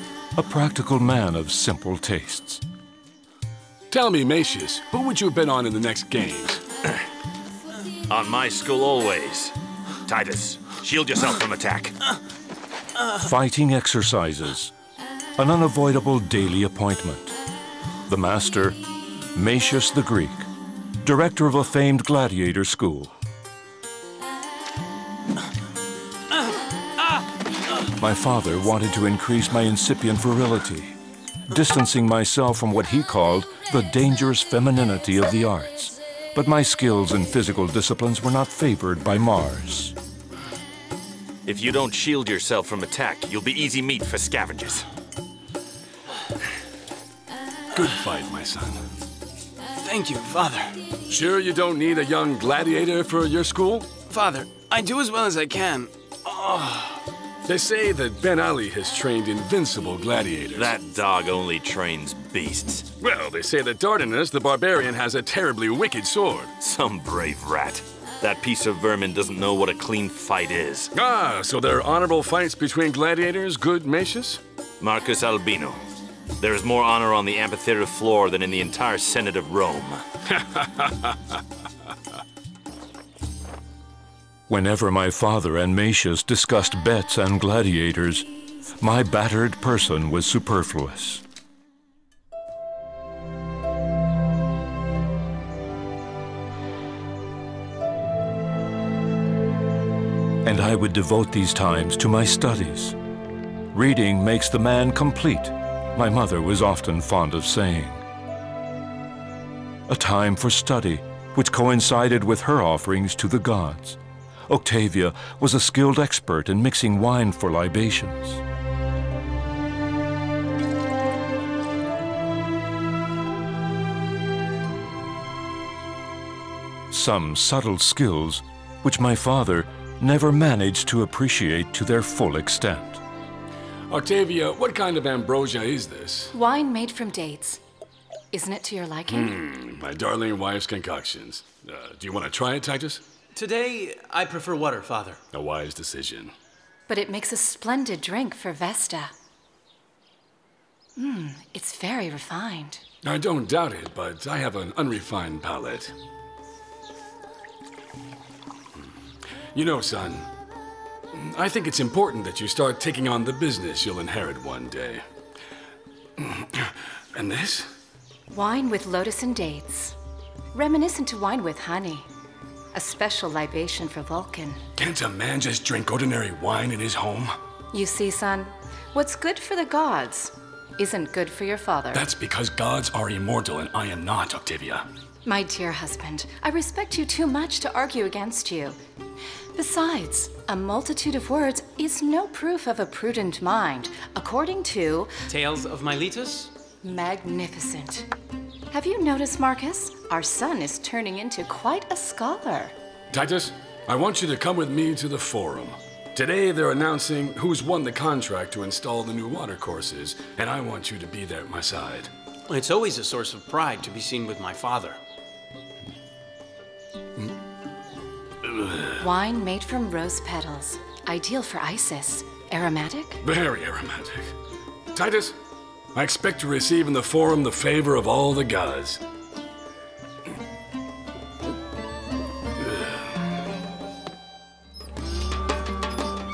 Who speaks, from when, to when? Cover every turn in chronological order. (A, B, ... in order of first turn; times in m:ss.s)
0:00.4-0:02.6 A
0:03.9-0:06.6 B
0:08.1-0:09.5 C
0:10.1-0:12.0 C
0:13.2-0:14.7 A
0:15.4-0:17.4 A
0:18.1-0:18.8 A
0:19.3-0:20.5 A
0:21.0-0:23.2 A
0:27.9-0:31.0 A
0:31.5-0:40.0 A
0:41.5-0:44.9 C
0:47.7-0:48.8 B
0:49.8-0:50.7 D
0:51.1-0:53.9 B
0:54.1-0:56.0 D
0:56.3-0:56.6 B
0:56.5-0:56.9 D
0:57.5-1:00.7 B
1:00.6-1:02.9 C
1:03.0-1:06.5 B
1:06.6-1:10.9 C
1:11.0-1:14.4 B
1:14.8-1:15.8 C
1:16.4-1:20.0 C
1:20.3-1:21.2 B
1:24.5-1:28.3 A
1:28.8-1:31.2 A
1:40.4-1:43.0 A
1:43.7-1:48.0 A
1:49.9-1:58.4 A
2:06.9-2:13.0 A
2:13.9-2:16.3 B
2:16.3-2:17.6 E
2:18.3-2:19.4 E
2:19.1-2:23.0 B
2:23.3-2:25.2 D
2:25.3-2:26.3 B
2:26.9-2:29.1 E
2:31.0-2:32.8 E
2:33.0-2:35.9 B
2:39.5-2:40.3 B
2:41.1-2:45.0 B
2:46.2-2:47.7 B
2:48.3-2:50.0 E
2:50.5-2:52.1 E
2:52.7-2:54.6 E
2:54.8-2:57.3 B
2:57.7-3:02.1 E
3:01.9-3:04.9 B
3:05.2-3:08.8 E
3:09.6-3:15.1 E
3:15.3-3:16.5 D
3:16.8-3:18.1 E
3:18.7-3:22.7 E
3:23.1-3:32.1 B
3:32.5-3:35.0 D
3:39.0-3:43.2 E
3:43.2-3:44.3 B
3:44.9-3:45.4 B
3:45.9-3:49.0 B